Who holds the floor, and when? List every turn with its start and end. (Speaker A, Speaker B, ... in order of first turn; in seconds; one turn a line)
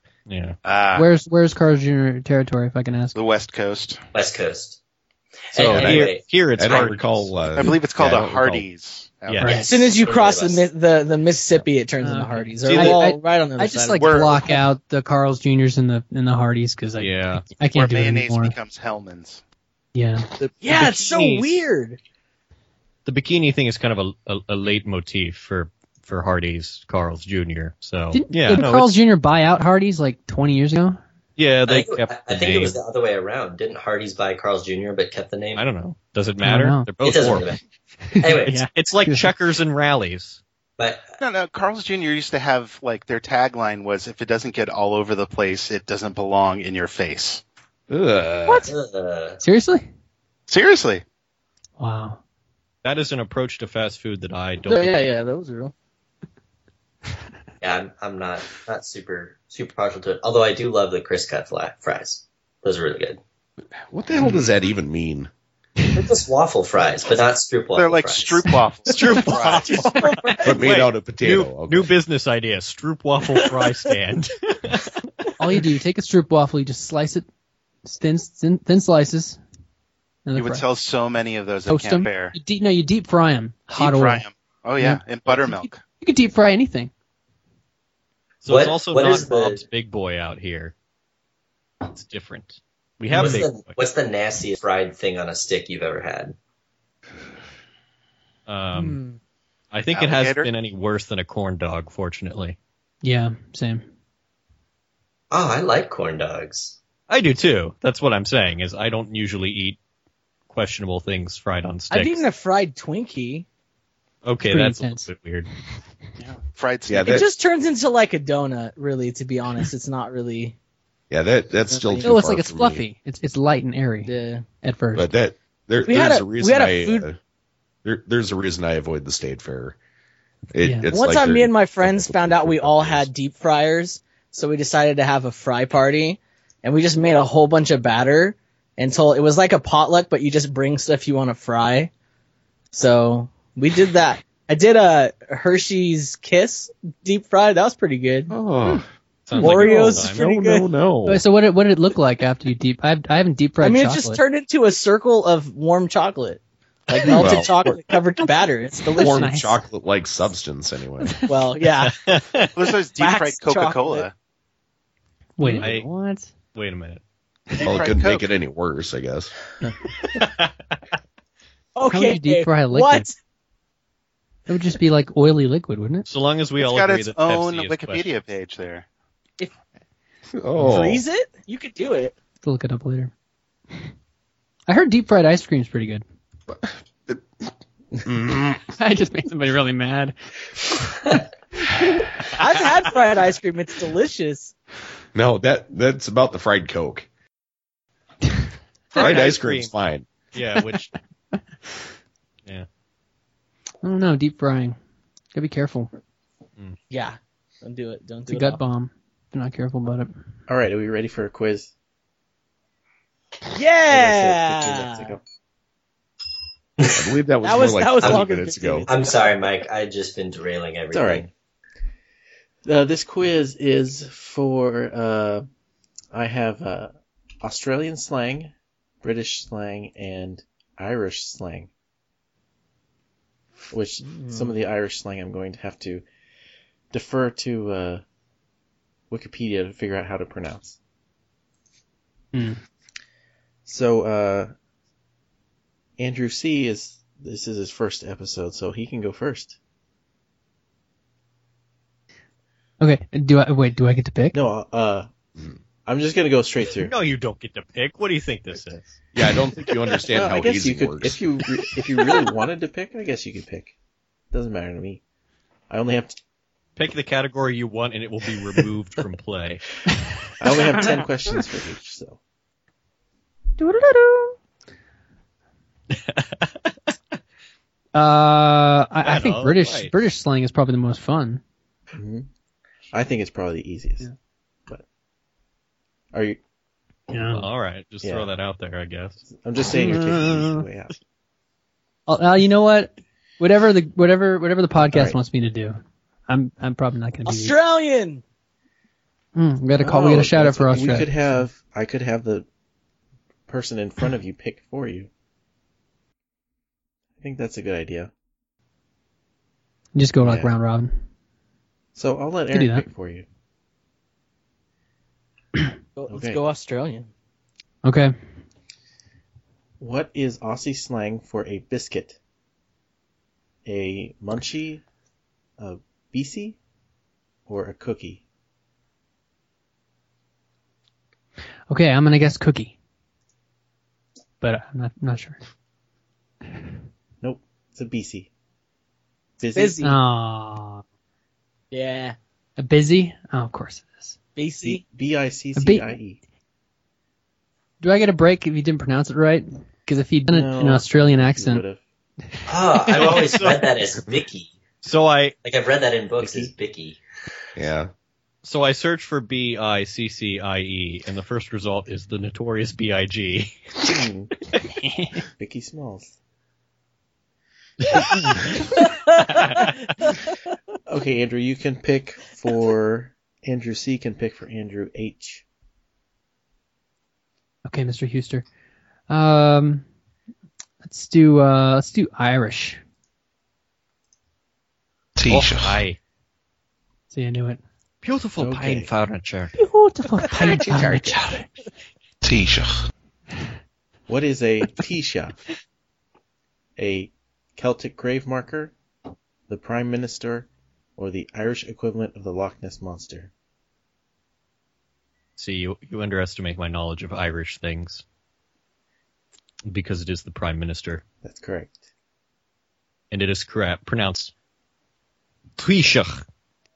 Speaker A: 0.3-0.6
Speaker B: 0.6-1.1
Speaker C: 0.9-3.1
Speaker B: 3.1-4.0
Speaker D: 4.1-4.8
Speaker D: 5.5-6.9
Speaker E: 5.5-8.7
Speaker A: 5.6-7.3
Speaker B: 7.5-9.8
Speaker A: 9.2-9.6
Speaker C: 9.4-9.7
Speaker D: 9.5-10.7
Speaker F: 9.6-14.2
Speaker C: 12.0-18.5
Speaker A: 12.6-13.0
Speaker B: 14.0-14.3
Speaker A: 17.0-17.4
Speaker B: 17.7-19.4
Speaker C: 19.9-20.3
Speaker A: 20.4-21.7
Speaker F: 20.6-22.0
Speaker A: 23.0-29.0
Speaker C: 28.1-31.0
Speaker A: 31.4-32.8
Speaker D: 31.6-35.6
Speaker A: 35.5-37.5
Speaker C: 36.4-36.9
Speaker D: 37.0-37.6
Speaker C: 38.1-39.3
Speaker D: 38.2-38.6
Speaker A: 38.6-40.4
Speaker D: 40.8-41.0
Speaker B: 41.2-47.4
Speaker E: 47.9-48.7
Speaker D: 48.6-49.4
Speaker C: 49.4-49.9
Speaker B: 50.5-51.0
Speaker C: 51.8-52.2
Speaker A: 52.8-55.0
Speaker F: 54.7-55.7
Speaker D: 57.6-63.2
Speaker E: 63.9-65.3
Speaker D: 65.9-68.5
Speaker B: 67.7-69.9
Speaker A: 68.8-74.9
Speaker F: 69.5-70.7
Speaker E: 70.4-71.9
Speaker C: 75.4-77.2
Speaker C: 77.8-79.4
Speaker C: 80.2-80.6
Speaker B: 80.3-82.3
Speaker C: 81.7-84.2
Speaker B: 83.7-85.8
Speaker C: 84.8-86.9
Speaker A: 88.4-90.7
Speaker D: 88.5-89.6
Speaker A: 91.9-93.8
Speaker C: 93.1-93.4
Speaker D: 93.1-96.3
Speaker A: 98.5-99.0
Speaker F: 98.7-99.2
Speaker A: 99.7-102.6
Speaker B: 99.9-100.5
Speaker C: 103.0-103.8
Speaker D: 105.3-106.8
Speaker A: 107.1-109.8
Speaker A: 110.5-112.3
Speaker F: 111.9-113.5
Speaker A: 114.2-115.5
Speaker C: 114.5-115.1
Speaker B: 116.3-117.3
Speaker E: 116.9-117.2
Speaker F: 117.0-120.5
Speaker E: 121.1-122.8
Speaker F: 121.7-122.2
Speaker C: 122.0-125.1
Speaker F: 124.0-124.4
Speaker E: 124.9-127.2
Speaker F: 125.8-127.1
Speaker E: 127.8-129.8
Speaker E: 130.5-133.1
Speaker C: 130.6-130.9
Speaker F: 130.9-141.9
Speaker F: 142.7-148.3
Speaker E: 148.3-148.9
Speaker A: 149.3-150.2
Speaker F: 149.4-150.7
Speaker E: 149.4-151.2
Speaker C: 151.1-154.2
Speaker F: 153.6-159.3
Speaker E: 157.1-157.8
Speaker C: 158.9-159.6
Speaker E: 159.0-161.2
Speaker C: 161.0-161.3
Speaker F: 161.3-161.9
Speaker A: 161.8-162.5
Speaker B: 162.6-164.1
Speaker F: 163.0-164.1
Speaker C: 165.4-166.3
Speaker A: 165.5-165.9
Speaker A: 166.5-167.0
Speaker B: 167.6-168.3
Speaker E: 167.6-169.3
Speaker A: 170.1-170.5
Speaker F: 171.7-173.1
Speaker C: 171.8-173.1
Speaker C: 174.5-176.1
Speaker A: 176.1-178.1
Speaker B: 176.6-178.8
Speaker E: 180.3-181.0
Speaker F: 180.6-182.1
Speaker C: 182.4-183.1
Speaker C: 184.7-186.0
Speaker E: 186.5-187.2
Speaker E: 188.0-188.6
Speaker C: 188.8-190.1
Speaker F: 192.3-194.5
Speaker E: 195.1-197.1
Speaker A: 198.9-199.7
Speaker E: 198.9-200.1
Speaker A: 200.3-200.9
Speaker C: 203.8-204.8
Speaker C: 205.3-205.9
Speaker F: 206.9-208.6
Speaker C: 208.3-210.1
Speaker G: 210.5-211.7
Speaker F: 213.5-215.1
Speaker G: 213.9-215.2
Speaker D: 216.8-217.1
Speaker E: 216.9-218.9
Speaker F: 217.4-219.3
Speaker D: 218.9-221.3
Speaker G: 220.9-221.3
Speaker G: 222.6-225.4
Speaker G: 226.1-231.7
Speaker G: 233.7-236.0
Speaker F: 234.1-234.5
Speaker G: 236.9-238.0
Speaker G: 239.1-240.8
Speaker C: 242.3-242.6
Speaker G: 243.7-244.5
Speaker G: 246.0-249.6
Speaker C: 252.8-254.4
Speaker G: 254.3-255.1
Speaker G: 255.8-256.9
Speaker A: 256.8-259.0
Speaker E: 259.1-261.2
Speaker G: 260.1-263.7
Speaker G: 264.3-265.0
Speaker G: 265.7-266.2
Speaker A: 266.8-269.6
Speaker G: 270.4-272.2
Speaker C: 273.6-274.4
Speaker A: 275.9-276.7
Speaker C: 277.9-281.4
Speaker A: 279.0-279.9
Speaker G: 281.9-282.3
Speaker G: 282.9-284.1
Speaker G: 286.1-286.4
Speaker C: 287.1-287.5
Speaker A: 287.3-289.2
Speaker G: 288.0-288.3
Speaker G: 289.3-290.9
Speaker C: 289.7-290.6
Speaker C: 292.1-297.5
Speaker G: 294.9-295.2
Speaker F: 297.2-298.2
Speaker C: 299.3-301.1
Speaker G: 299.8-302.5
Speaker G: 303.5-305.1
Speaker G: 307.2-308.1
Speaker C: 309.9-310.9
Speaker G: 310.2-310.5
Speaker G: 311.9-313.2
Speaker C: 312.5-312.8
Speaker F: 316.0-317.1
Speaker G: 316.1-316.4
Speaker C: 317.8-318.1
Speaker G: 319.8-322.2
Speaker G: 323.6-324.8
Speaker G: 325.6-326.6
Speaker G: 327.5-328.2
Speaker C: 331.7-332.7
Speaker C: 334.4-335.4
Speaker G: 337.2-338.3
Speaker G: 339.4-339.8
Speaker F: 339.5-339.9
Speaker C: 339.8-340.8
Speaker F: 341.7-342.1
Speaker C: 342.6-344.1
Speaker F: 344.4-344.8
Speaker G: 344.6-346.2
Speaker C: 345.5-346.0
Speaker C: 347.8-351.6
Speaker G: 350.3-351.8
Speaker D: 352.5-354.5
Speaker A: 352.9-353.7
Speaker A: 354.8-355.3
Speaker D: 355.4-357.0
Speaker G: 356.2-356.5
Speaker E: 357.6-357.9
Speaker A: 358.4-363.8
Speaker G: 363.8-364.3
Speaker C: 364.8-365.2
Speaker G: 365.4-366.1
Speaker A: 367.8-368.3
Speaker A: 369.3-369.7
Speaker G: 370.9-375.4
Speaker C: 377.6-378.4
Speaker C: 379.1-379.8
Speaker C: 380.8-382.8
Speaker E: 385.2-385.8
Speaker A: 385.2-386.0
Speaker C: 387.1-387.6
Speaker A: 388.0-389.5
Speaker G: 388.4-388.9
Speaker C: 389.6-391.4
Speaker E: 392.2-392.7
Speaker G: 394.1-395.4
Speaker G: 396.8-398.7
Speaker G: 399.5-403.3
Speaker A: 405.4-408.0
Speaker A: 409.7-411.0
Speaker G: 411.2-411.8
Speaker A: 413.1-414.3
Speaker A: 415.6-416.2